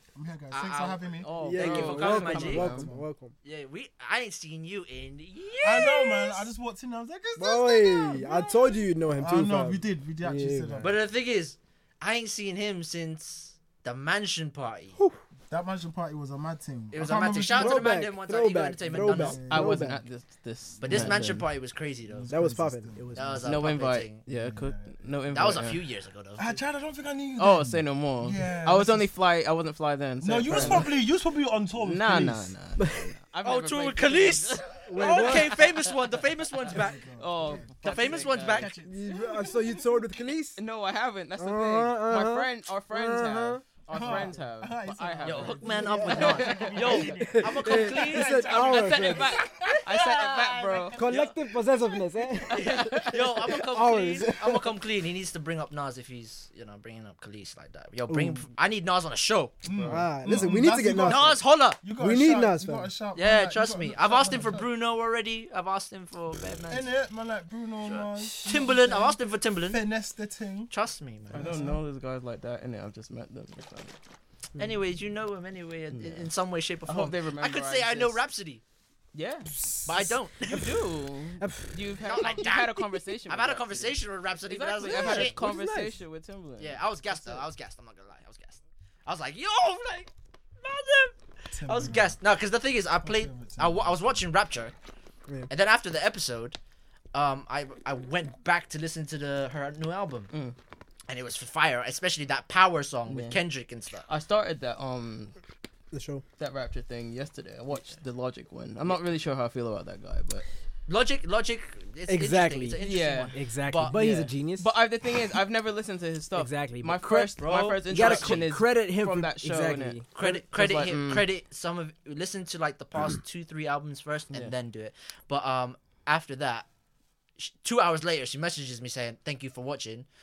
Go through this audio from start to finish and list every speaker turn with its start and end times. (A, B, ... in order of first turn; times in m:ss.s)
0:00.1-0:01.3 A
0:00.5-0:02.8 B
0:01.2-0:02.9 C
0:01.4-0:03.4 D
0:02.4-0:03.1 A
0:03.4-0:06.5 B
0:05.6-0:11.0 A
0:07.4-0:10.9 D
0:10.8-0:15.0 B
0:15.5-0:18.1 A
0:16.9-0:19.5 B
0:17.5-0:20.0 D
0:18.8-0:20.0 A
0:19.5-0:21.5 C
0:20.8-0:22.3 B
0:20.8-0:21.4 A
0:22.1-0:23.5 A
0:22.3-0:23.5 D
0:23.1-0:24.2 B
0:23.4-0:25.8 C
0:24.3-0:25.6 A
0:25.3-0:26.6 B
0:26.4-0:29.1 A
0:27.4-0:30.9 C
0:30.2-0:32.6 A
0:30.5-0:30.8 D
0:31.8-0:35.9 C
0:32.8-0:33.1 D
0:33.4-0:37.1 B
0:34.9-0:35.5 D
0:36.7-0:40.1 A
0:37.2-0:38.7 C
0:37.8-0:38.7 B
0:38.8-0:40.6 D
0:40.6-0:46.8 C
0:41.4-0:43.6 D
0:43.9-0:51.3 A
0:45.2-0:49.4 B
0:45.8-0:49.4 D
0:49.0-0:51.0 C
0:51.0-0:54.6 D
0:51.0-0:51.3 B
0:52.5-0:53.6 C
0:52.6-0:59.6 B
0:58.1-0:58.4 D
0:59.6-1:04.7 A
0:59.9-1:01.2 D
1:01.1-1:01.8 B
1:01.9-1:02.9 D
1:03.2-1:06.9 B
1:06.7-1:10.7 A
1:07.8-1:09.8 B
1:10.7-1:11.6 B
1:11.3-1:11.8 A
1:11.3-1:14.0 C
1:14.6-1:18.6 B
1:15.9-1:16.3 C
1:16.8-1:18.2 C
1:19.1-1:19.5 C
1:19.6-1:19.9 D
1:19.9-1:20.8 B
1:20.5-1:27.4 C
1:21.4-1:21.8 D
1:22.0-1:25.4 B
1:24.9-1:26.0 D
1:26.6-1:34.7 B
1:31.5-1:32.2 A
1:33.0-1:34.3 A
1:35.5-1:36.6 B
1:37.1-1:40.3 B
1:41.1-1:44.1 B
1:43.1-1:43.4 C
1:44.1-1:45.4 C
1:45.9-1:46.2 D
1:46.4-1:50.5 C
1:50.9-1:54.3 B
1:52.1-1:54.7 D
1:52.8-1:53.3 C
1:54.6-2:01.3 C
1:56.4-2:00.1 D
1:57.4-1:58.4 B
2:00.2-2:06.7 B
2:07.4-2:10.1 B